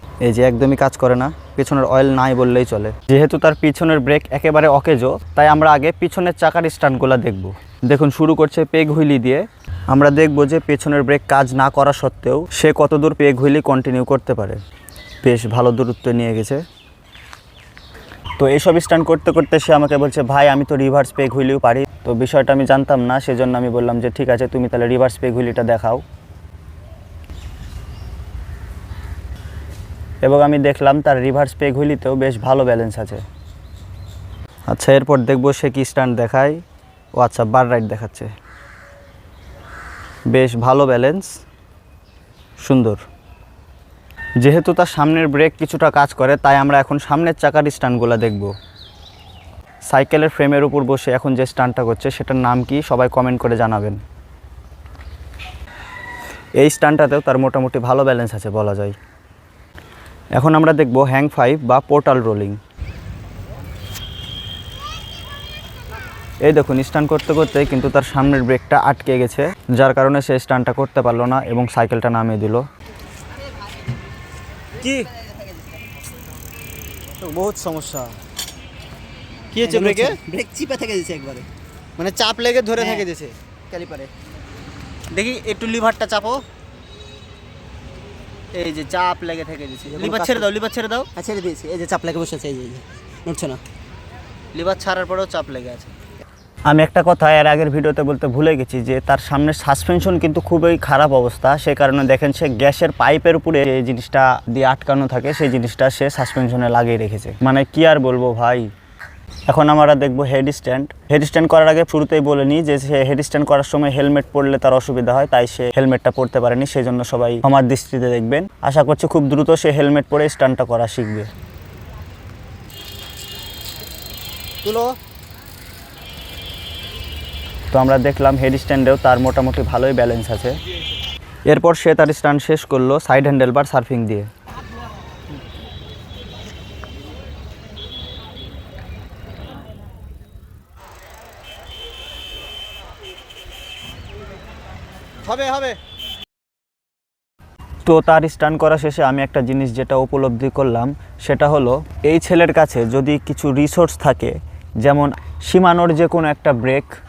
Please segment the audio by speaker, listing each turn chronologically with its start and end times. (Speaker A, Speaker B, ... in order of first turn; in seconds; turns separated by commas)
Speaker A: 0.2-14.6, Speaker A: 15.2-16.6, Speaker A: 18.4-26.0, Speaker A: 30.2-33.2, Speaker A: 34.7-36.6, Speaker A: 37.2-38.3, Speaker A: 40.3-41.4, Speaker A: 42.6-43.0, Speaker A: 44.4-48.5, Speaker A: 49.9-54.0, Speaker A: 56.6-59.0, Speaker A: 60.4-62.6, Speaker A: 66.5-72.6, Speaker B: 77.3-77.8, Speaker A: 77.4-78.0, Speaker A: 79.6-80.2, Speaker C: 79.6-81.5, Speaker B: 79.7-80.0, Speaker B: 82.0-83.3, Speaker A: 82.0-83.3, Speaker C: 82.8-83.1, Speaker C: 83.7-84.1, Speaker B: 85.1-86.4, Speaker B: 88.5-91.1, Speaker C: 89.9-90.5, Speaker A: 90.0-91.0, Speaker C: 91.1-93.6, Speaker B: 94.5-95.9, Speaker A: 95.0-95.3, Speaker A: 96.7-108.7, Speaker A: 109.5-121.3, Speaker A: 127.7-130.6, Speaker A: 131.5-134.3, Speaker B: 145.2-145.8, Speaker A: 147.9-156.9